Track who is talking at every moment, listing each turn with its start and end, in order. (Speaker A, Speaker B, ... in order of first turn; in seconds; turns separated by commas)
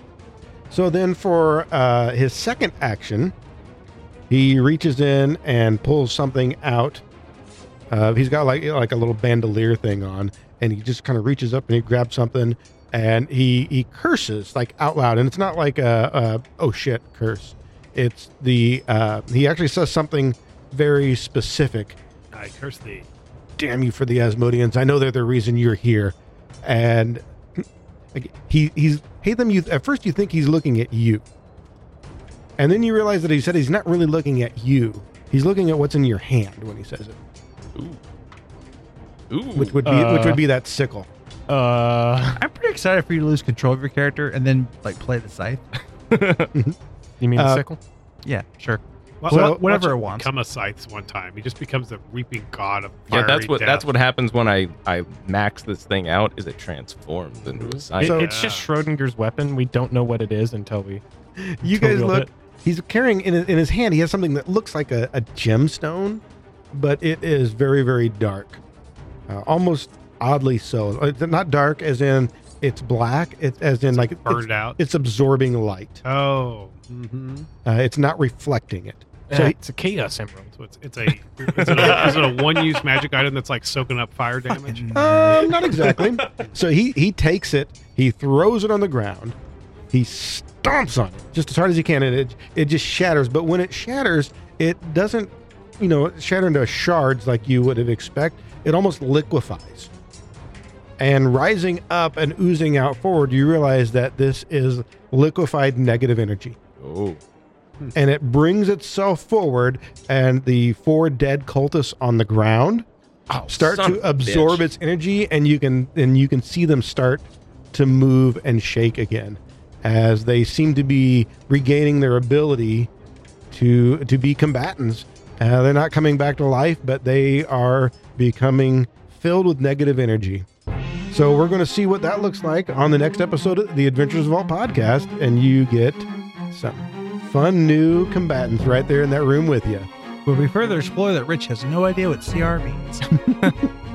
Speaker A: 0.7-3.3, Speaker A: 4.3-7.0, Speaker A: 7.9-22.0, Speaker B: 22.3-23.1, Speaker A: 23.6-31.2, Speaker A: 32.6-37.2, Speaker C: 39.3-39.8, Speaker A: 39.5-41.1, Speaker D: 39.8-40.4, Speaker D: 41.5-42.4, Speaker E: 42.4-45.6, Speaker C: 46.1-46.5, Speaker D: 47.2-47.8, Speaker A: 47.3-47.6, Speaker E: 48.2-50.3, Speaker B: 49.2-53.9, Speaker A: 49.3-49.6, Speaker C: 53.1-58.3, Speaker B: 57.4-58.7, Speaker D: 58.0-61.0, Speaker A: 58.0-58.3, Speaker A: 61.4-68.6, Speaker D: 61.6-62.3, Speaker A: 69.3-76.0, Speaker B: 73.9-74.8, Speaker B: 76.0-77.5, Speaker A: 77.6-79.5, Speaker D: 79.3-80.5, Speaker B: 80.6-85.5, Speaker C: 81.6-82.6, Speaker E: 84.5-85.7, Speaker A: 84.9-89.4, Speaker A: 89.9-99.9, Speaker A: 101.0-106.6, Speaker C: 106.8-107.2, Speaker A: 107.9-112.8, Speaker C: 113.3-114.6, Speaker A: 113.5-122.9, Speaker A: 123.5-130.5, Speaker A: 131.1-139.9, Speaker E: 140.2-143.5